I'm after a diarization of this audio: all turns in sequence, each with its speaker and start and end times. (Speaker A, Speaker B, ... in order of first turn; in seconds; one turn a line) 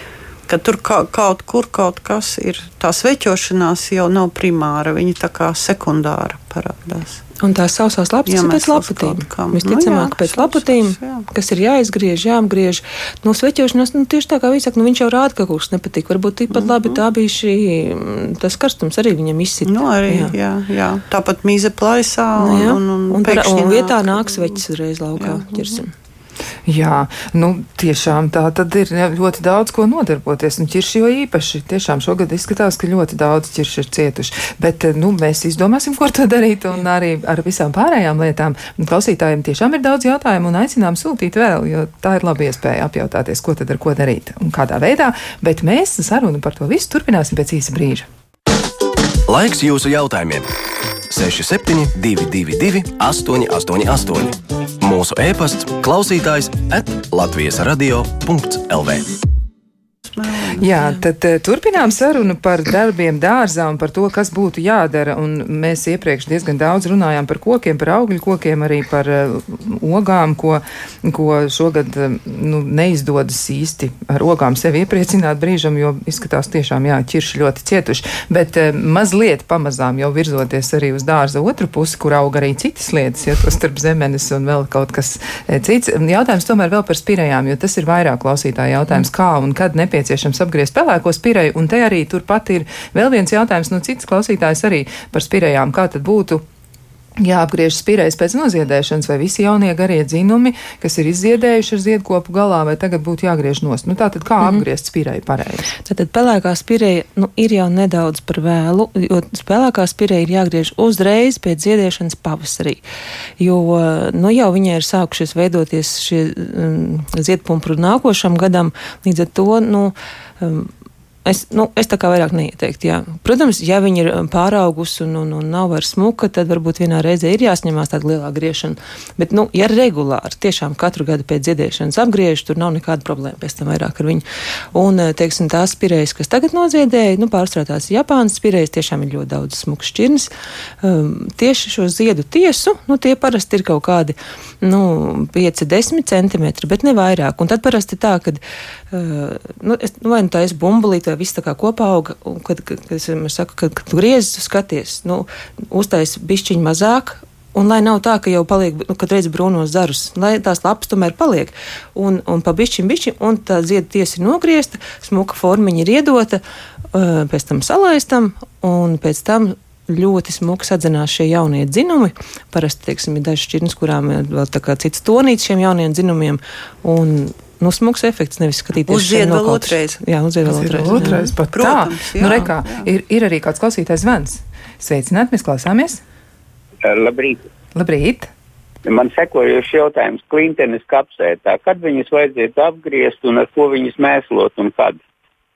Speaker A: 0.5-7.2
Speaker B: 7.4-20.3
Speaker A: 8.3-11.3
Speaker A: 16.5-17.0
Speaker A: 19.6-24.5
Speaker B: 22.4-25.9
Speaker A: 25.2-25.8
Speaker C: 26.6-48.1
Speaker D: 49.3-50.5
Speaker D: 51.1-59.1
Speaker A: 60.1-60.7
Speaker C: 60.5-96.4
Speaker C: 97.2-105.7
Speaker B: 105.8-112.8
Speaker B: 113.4-120.7
Speaker B: 121.2-140.3
Speaker B: 140.8-166.4
Speaker B: 166.9-181.3
Speaker A: 178.9-180.0
Speaker C: 180.4-186.0
Speaker A: 180.8-182.9
Speaker E: 186.8-187.4
Speaker C: 187.7-188.3
Speaker E: 188.8-194.9